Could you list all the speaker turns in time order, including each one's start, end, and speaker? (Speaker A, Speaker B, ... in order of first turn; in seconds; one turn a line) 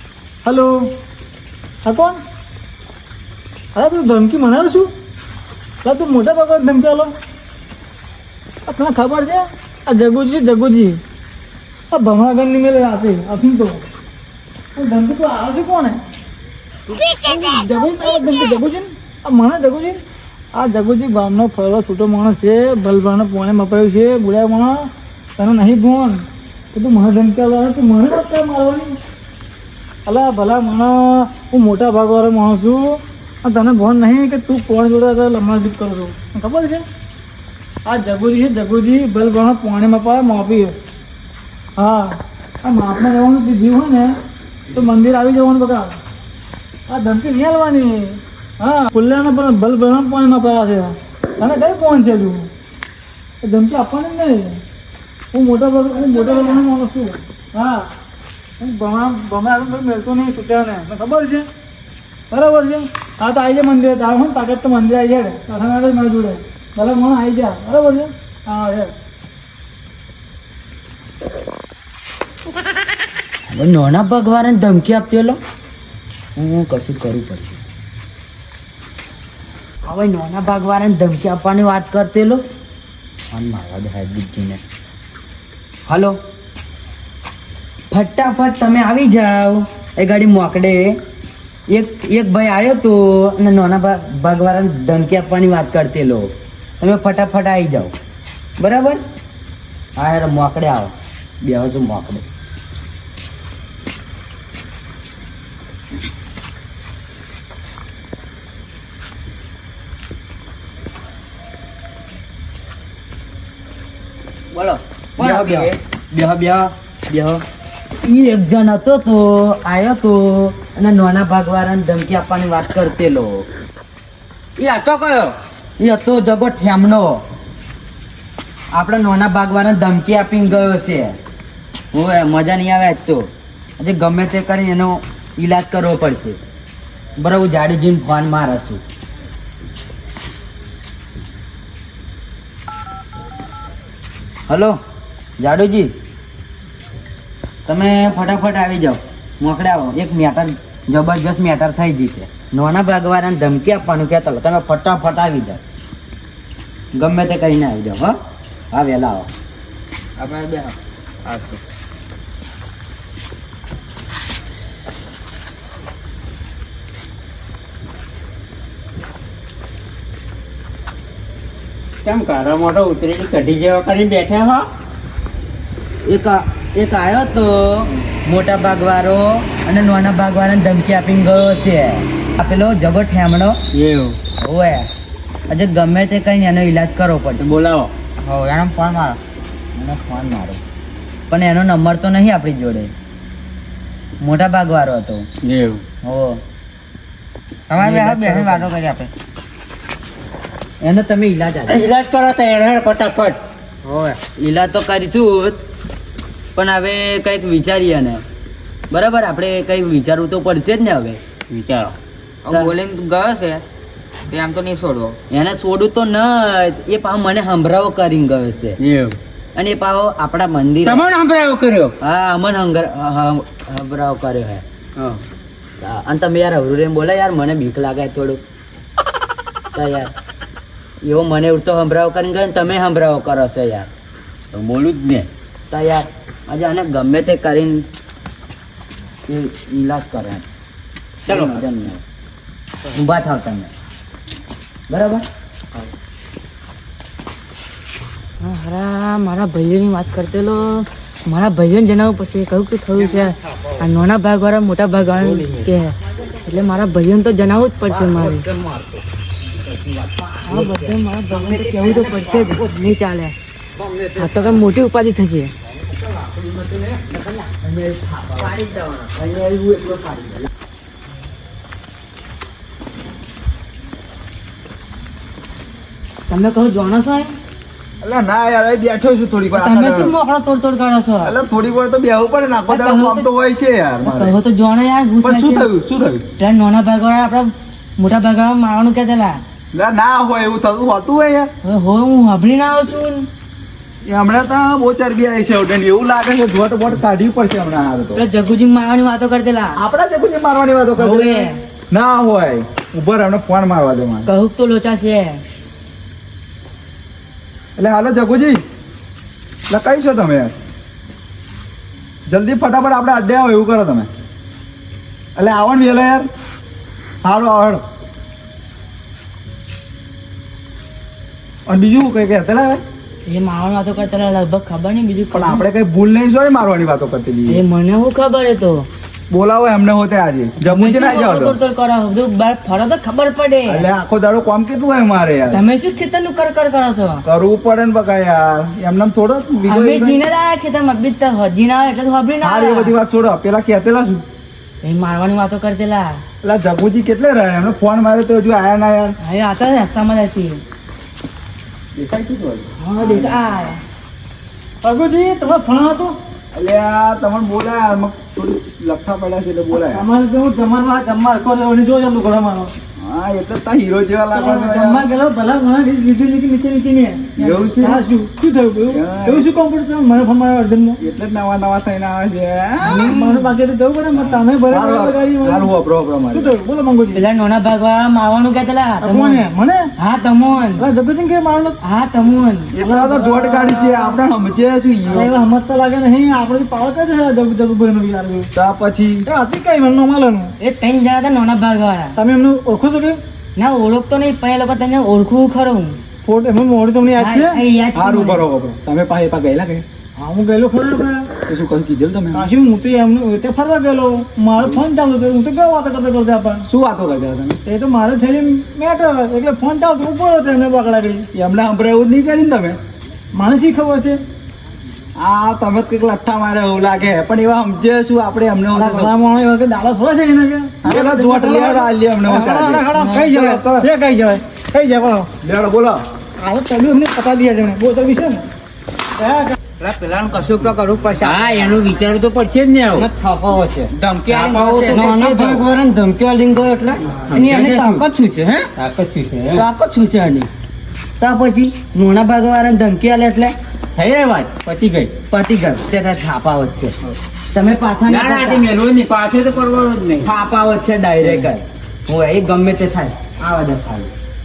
Speaker A: 0.4-0.9
Speaker A: 1.9-2.2
Speaker A: 3.8-4.9
Speaker A: 5.8-7.1
Speaker A: 8.7-11.0
Speaker A: 11.9-13.8
Speaker A: 14.8-16.0
Speaker A: 17.0-20.0
Speaker A: 20.6-26.2
Speaker A: 26.7-29.0
Speaker A: 30.1-36.9
Speaker A: 37.9-40.7
Speaker A: 41.8-44.1
Speaker A: 44.7-46.0
Speaker A: 46.9-52.5
Speaker A: 53.4-54.6
Speaker A: 55.3-57.9
Speaker B: 56.1-56.5
Speaker A: 58.6-61.5
Speaker A: 62.3-68.9
Speaker C: 73.5-75.4
Speaker C: 76.4-77.6
Speaker C: 79.9-82.4
Speaker C: 83.3-84.6
Speaker C: 85.9-86.2
Speaker C: 87.9-91.0
Speaker C: 91.7-97.9
Speaker C: 98.6-99.0
Speaker C: 100.0-102.2
Speaker C: 114.5-117.4
Speaker D: 115.2-115.7
Speaker C: 118.0-123.5
Speaker C: 124.6-127.2
Speaker C: 128.7-131.2
Speaker C: 131.9-133.3
Speaker C: 133.8-136.4
Speaker C: 137.2-138.8
Speaker C: 144.5-144.8
Speaker C: 145.4-145.9
Speaker C: 147.7-155.6
Speaker C: 156.9-158.2
Speaker C: 158.7-159.3
Speaker C: 160.3-160.7
Speaker D: 172.0-174.7
Speaker C: 176.1-183.6
Speaker D: 183.7-184.2
Speaker C: 184.4-184.9
Speaker C: 185.5-187.5
Speaker D: 187.4-187.9
Speaker C: 188.2-189.2
Speaker C: 189.8-190.6
Speaker C: 191.3-192.9
Speaker C: 194.2-195.3
Speaker D: 195.4-195.8
Speaker C: 196.0-196.4
Speaker C: 197.7-199.1
Speaker D: 197.7-198.7
Speaker C: 200.8-201.9
Speaker D: 201.7-203.4
Speaker C: 203.8-205.6
Speaker C: 206.6-208.2
Speaker C: 208.9-211.2
Speaker D: 211.5-211.9
Speaker C: 212.5-212.8
Speaker C: 215.3-218.8
Speaker D: 218.8-219.2
Speaker C: 219.6-221.1
Speaker D: 220.8-221.9
Speaker C: 222.0-224.6
Speaker C: 225.8-228.4
Speaker C: 229.7-230.1
Speaker C: 231.0-233.9
Speaker D: 234.5-235.3
Speaker C: 235.7-237.9
Speaker C: 239.3-240.4
Speaker D: 241.3-241.7
Speaker C: 241.3-242.0
Speaker C: 242.9-243.7
Speaker C: 244.9-245.2
Speaker B: 248.4-258.4
Speaker C: 257.9-259.0
Speaker C: 259.6-262.7
Speaker B: 260.5-263.4
Speaker C: 263.8-264.6
Speaker B: 264.2-265.5
Speaker C: 266.1-270.5
Speaker B: 276.3-277.3
Speaker E: 278.0-280.1
Speaker B: 279.6-281.3
Speaker E: 281.2-284.4
Speaker B: 282.7-283.3
Speaker B: 284.0-285.7
Speaker E: 285.2-286.2
Speaker B: 286.4-289.4
Speaker E: 289.7-291.5
Speaker B: 291.6-293.3
Speaker E: 294.1-298.2
Speaker B: 298.1-299.8
Speaker E: 299.8-304.3
Speaker B: 301.0-301.6
Speaker B: 304.3-305.4
Speaker E: 307.8-308.6
Speaker E: 309.7-310.5
Speaker E: 312.3-314.1
Speaker E: 315.4-316.3
Speaker E: 317.2-317.8
Speaker E: 321.7-322.8
Speaker B: 323.3-325.6
Speaker E: 325.3-327.6
Speaker B: 327.5-328.9
Speaker E: 329.3-331.6
Speaker B: 330.6-333.9
Speaker E: 333.7-335.6
Speaker B: 335.5-337.2
Speaker E: 337.2-340.2
Speaker B: 339.7-342.9
Speaker E: 342.4-344.2
Speaker B: 344.8-346.2
Speaker E: 346.4-349.2
Speaker B: 349.2-350.6
Speaker E: 351.9-353.3
Speaker B: 352.8-353.8
Speaker A: 354.8-356.2
Speaker E: 356.5-360.1
Speaker A: 359.7-362.7
Speaker E: 363.0-365.1
Speaker A: 364.3-371.0
Speaker E: 367.4-368.0
Speaker E: 368.9-369.5
Speaker E: 371.0-373.1
Speaker A: 372.9-375.7
Speaker E: 374.7-376.5
Speaker A: 376.3-377.3
Speaker B: 377.1-379.4
Speaker A: 379.0-379.9
Speaker B: 380.0-380.8
Speaker A: 380.8-381.8
Speaker B: 381.8-382.7
Speaker E: 382.7-385.3
Speaker A: 382.8-384.1
Speaker A: 385.1-388.5
Speaker E: 388.6-389.3
Speaker A: 389.3-390.5
Speaker B: 390.6-392.1
Speaker A: 392.1-393.2
Speaker B: 393.6-396.0
Speaker A: 396.2-397.6
Speaker B: 397.2-398.4
Speaker E: 397.9-399.9
Speaker A: 400.2-401.3
Speaker E: 401.4-402.5
Speaker A: 402.3-406.7
Speaker E: 406.7-407.6
Speaker A: 407.7-411.3
Speaker E: 411.3-412.8
Speaker A: 413.3-414.2
Speaker E: 415.2-419.1
Speaker A: 418.7-425.3
Speaker E: 420.9-423.9
Speaker E: 425.4-426.0
Speaker A: 426.4-428.4
Speaker A: 429.2-429.6
Speaker C: 429.8-431.8
Speaker D: 431.2-433.1
Speaker C: 432.9-438.7
Speaker D: 434.4-435.6
Speaker B: 435.1-435.5
Speaker D: 437.3-438.0
Speaker D: 438.8-439.7
Speaker C: 439.5-440.5
Speaker C: 441.2-443.6
Speaker D: 444.0-445.1
Speaker C: 445.3-446.9
Speaker C: 447.5-448.7
Speaker D: 448.1-450.3
Speaker C: 450.2-454.1
Speaker D: 451.2-451.5